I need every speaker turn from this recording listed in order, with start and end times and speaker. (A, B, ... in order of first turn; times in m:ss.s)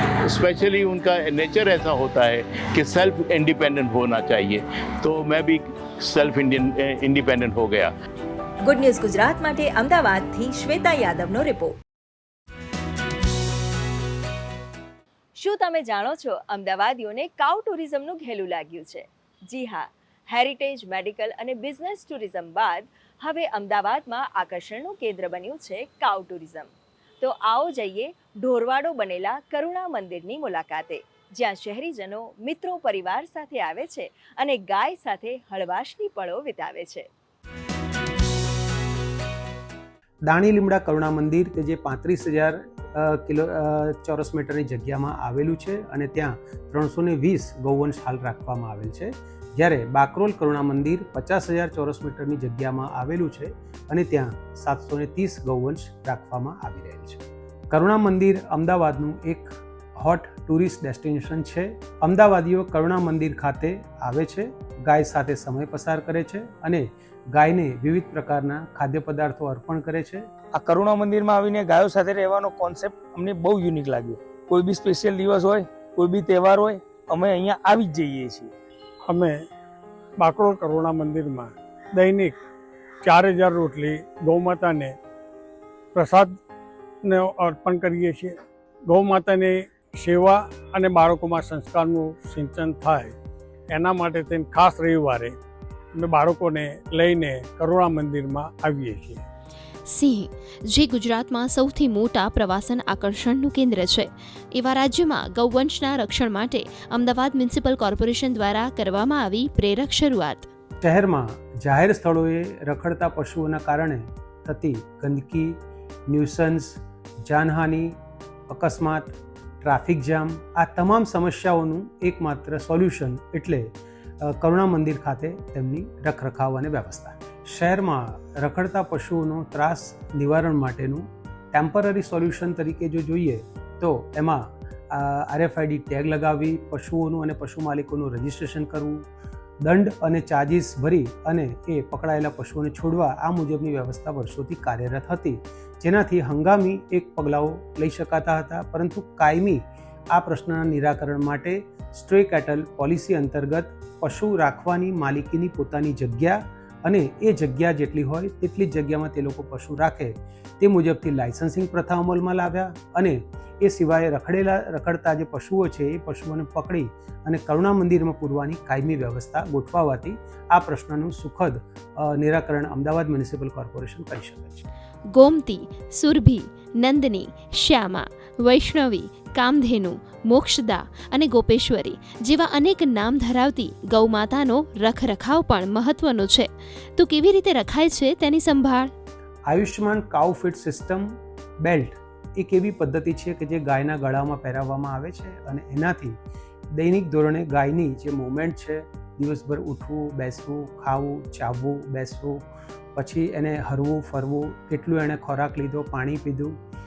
0:00.2-0:07.9 A
0:08.6-0:11.8 B
0:15.4-0:26.7 B
0:27.2-0:37.0 B
0:40.3-1:10.3 C
1:10.5-1:18.5 D
1:19.1-1:19.4 E
1:20.2-1:22.3 E
1:23.0-1:24.9 E
1:25.9-1:26.4 E
1:27.0-1:28.4 E
1:28.9-1:33.1 E
1:33.7-1:35.4 E
1:36.0-1:39.2 E
1:39.9-1:50.5 F
1:50.8-1:55.6 C
1:56.1-1:58.0 C
1:58.5-2:19.0 C
2:19.6-2:54.6 C
2:55.1-3:08.9 F
3:09.5-3:16.2 C
3:16.7-3:22.4 C
3:23.0-3:26.6 C